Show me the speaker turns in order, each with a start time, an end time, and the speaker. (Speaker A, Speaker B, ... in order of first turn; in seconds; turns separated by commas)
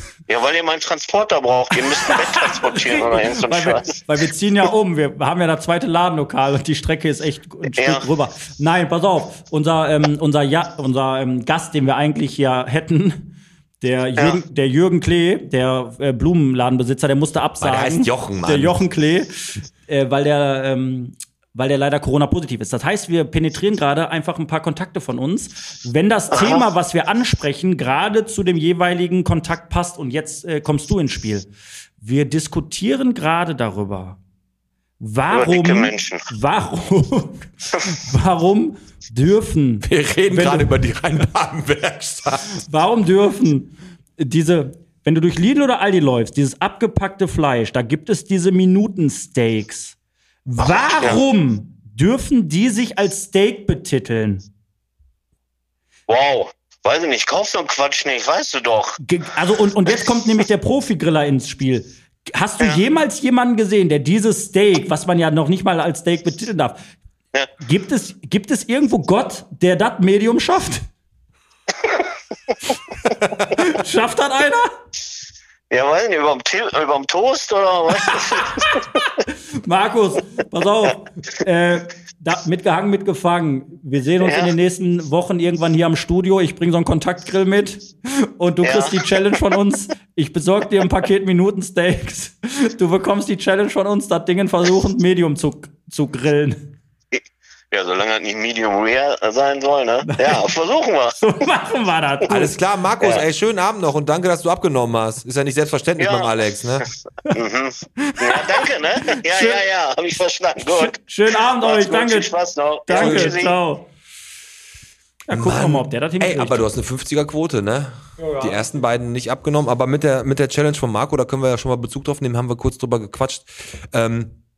Speaker A: 0.3-4.0, Speaker B: 1.8-31.5, Speaker A: 7.7-8.0, Speaker C: 17.6-18.8, Speaker A: 26.3-26.6, Speaker B: 32.0-34.2, Speaker B: 35.0-40.8, Speaker A: 35.3-36.3, Speaker C: 39.8-42.6, Speaker B: 42.5-54.5, Speaker A: 50.9-51.2, Speaker A: 56.1-59.0, Speaker B: 59.0-66.8, Speaker B: 67.6-70.8, Speaker B: 73.3-74.7, Speaker A: 75.7-78.8, Speaker B: 78.0-78.8, Speaker B: 79.6-96.7, Speaker A: 84.2-84.5, Speaker A: 88.6-89.0, Speaker A: 97.7-101.2, Speaker B: 100.0-100.4, Speaker B: 101.2-102.5, Speaker C: 102.3-106.8, Speaker A: 106.0-106.3, Speaker A: 107.3-111.0, Speaker B: 108.0-109.6, Speaker B: 110.6-112.3, Speaker A: 111.6-113.5, Speaker B: 112.9-113.9, Speaker C: 112.9-113.3, Speaker B: 115.3-116.7, Speaker C: 115.3-124.4, Speaker B: 118.2-118.6